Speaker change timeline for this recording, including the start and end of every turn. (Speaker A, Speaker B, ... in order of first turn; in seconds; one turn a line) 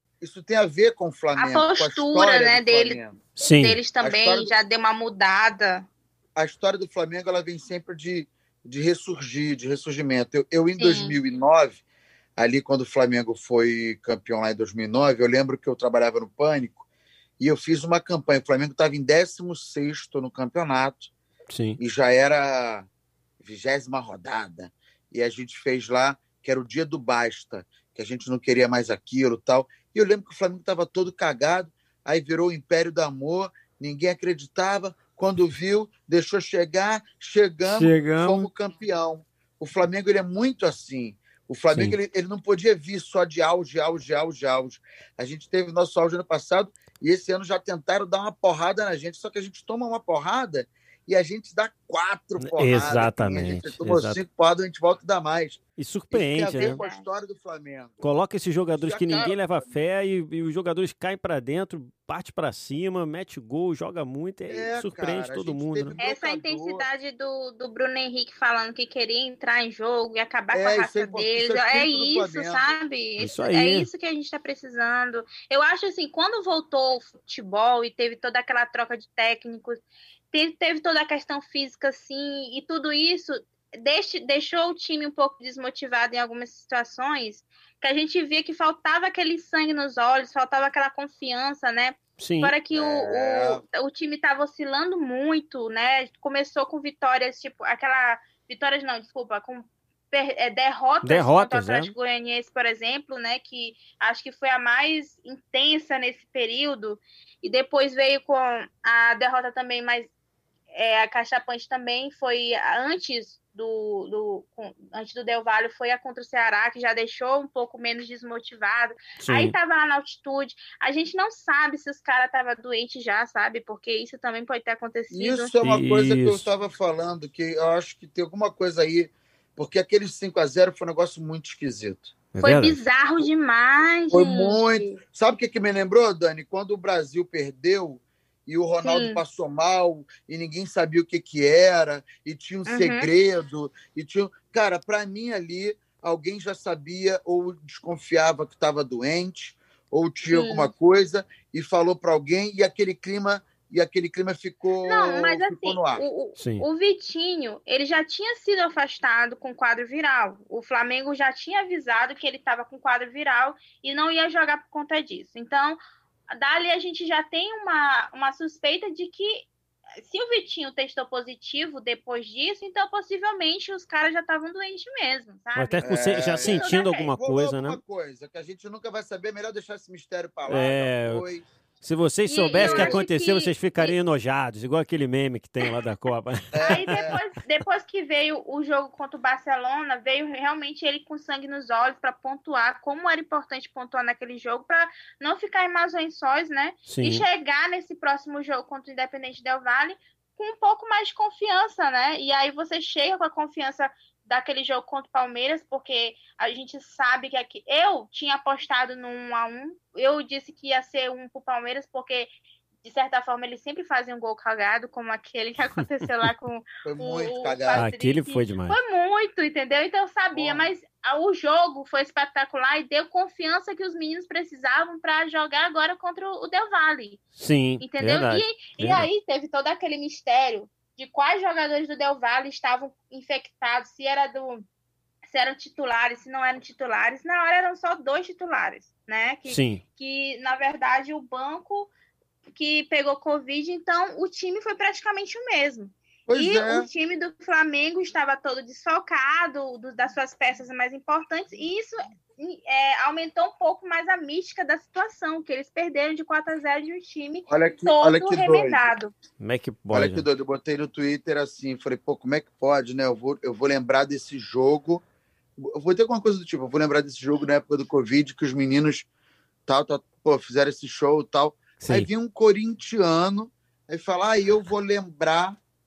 Speaker A: 0.2-3.2
Speaker B: 1.4-5.9
Speaker C: 3.4-3.8
Speaker A: 4.0-4.5
Speaker A: 6.3-11.8
Speaker B: 10.8-11.2
Speaker A: 12.4-16.8
Speaker A: 17.4-21.1
Speaker C: 21.5-21.8
Speaker A: 21.8-22.9
Speaker A: 23.4-58.1
Speaker C: 37.7-38.5
Speaker C: 41.7-42.0
Speaker C: 52.4-54.2
Speaker C: 55.8-56.8
Speaker B: 56.5-57.0
Speaker C: 58.0-65.9
Speaker A: 58.7-59.7
Speaker A: 64.5-66.9
Speaker B: 66.0-110.1
Speaker A: 70.5-72.8
Speaker C: 73.2-73.9
Speaker C: 92.2-92.5
Speaker A: 92.7-93.6
Speaker C: 101.0-101.9
Speaker B: 110.7-125.5
Speaker C: 119.2-119.5
Speaker A: 125.1-132.1
Speaker C: 125.6-126.5
Speaker C: 132.3-132.8
Speaker B: 132.4-135.0
Speaker A: 134.1-156.0
Speaker B: 138.8-139.2
Speaker B: 142.7-143.1
Speaker B: 150.3-150.7
Speaker B: 154.8-165.8
Speaker C: 156.4-156.6
Speaker B: 166.3-169.5
Speaker B: 170.0-177.1
Speaker C: 175.6-177.8
Speaker A: 175.8-181.4
Speaker C: 180.5-181.2
Speaker C: 181.8-186.8
Speaker B: 182.3-184.0
Speaker A: 182.6-183.0
Speaker A: 186.5-187.2
Speaker B: 186.6-212.3
Speaker C: 196.9-197.2
Speaker B: 212.8-227.2
Speaker A: 216.8-217.8
Speaker C: 217.7-218.8
Speaker A: 220.3-220.7
Speaker C: 227.4-229.1
Speaker B: 227.8-234.6
Speaker B: 235.2-241.9
Speaker C: 239.5-239.8
Speaker B: 242.5-259.1
Speaker A: 246.3-246.9
Speaker A: 257.5-258.8
Speaker C: 259.4-260.2
Speaker A: 259.9-265.0
Speaker A: 265.6-269.1
Speaker A: 269.7-275.6
Speaker C: 271.8-272.1